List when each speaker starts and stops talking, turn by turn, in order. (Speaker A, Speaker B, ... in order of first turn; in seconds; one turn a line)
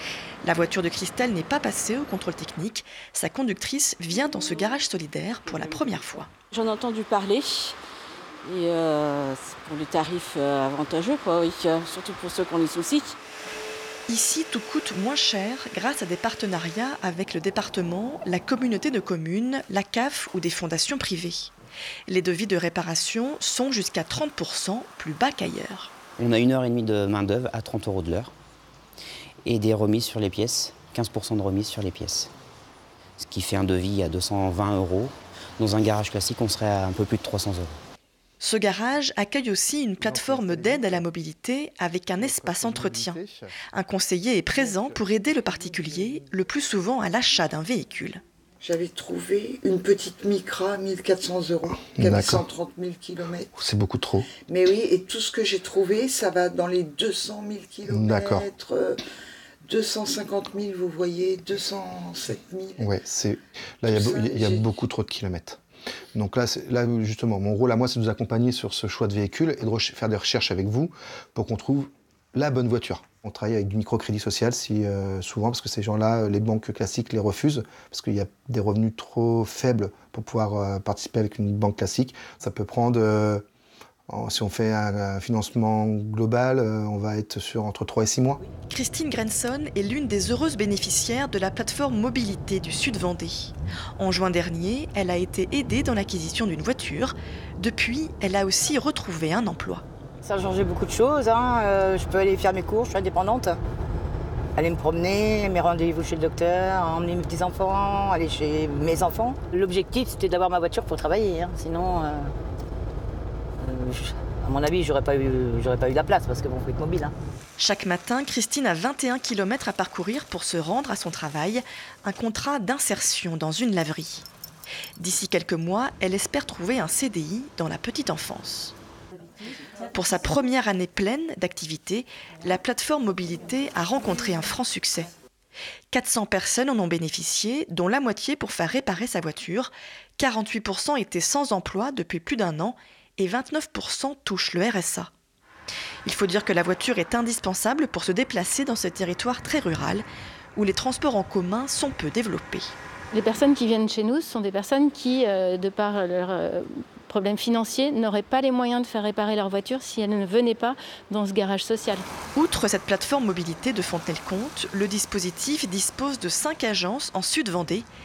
Speaker A: 0.4-6.3
Speaker B: 6.5-7.8
Speaker B: 8.4-13.2
Speaker A: 14.1-21.5
Speaker A: 22.1-25.9
Speaker C: 26.2-28.3
Speaker C: 29.4-32.3
Speaker C: 33.2-37.8
Speaker A: 38.4-43.2
Speaker D: 40.0-41.0
Speaker D: 42.2-43.5
Speaker A: 43.7-48.2
Speaker E: 48.6-53.5
Speaker D: 51.9-52.4
Speaker D: 53.5-54.3
Speaker E: 54.5-59.0
Speaker D: 57.9-58.5
Speaker E: 59.6-62.8
Speaker D: 62.8-65.6
Speaker E: 63.9-64.6
Speaker D: 66.1-83.4
Speaker D: 84.1-88.4
Speaker A: 88.7-99.8
Speaker F: 100.2-103.6
Speaker F: 104.5-112.3
Speaker F: 113.6-117.1
Speaker A: 117.6-124.3
Speaker A: 125.0-128.7
Speaker A: 129.9-135.1
Speaker A: 135.9-145.1
Speaker A: 146.0-152.7
Speaker G: 153.1-162.1
Speaker A: 162.3-167.9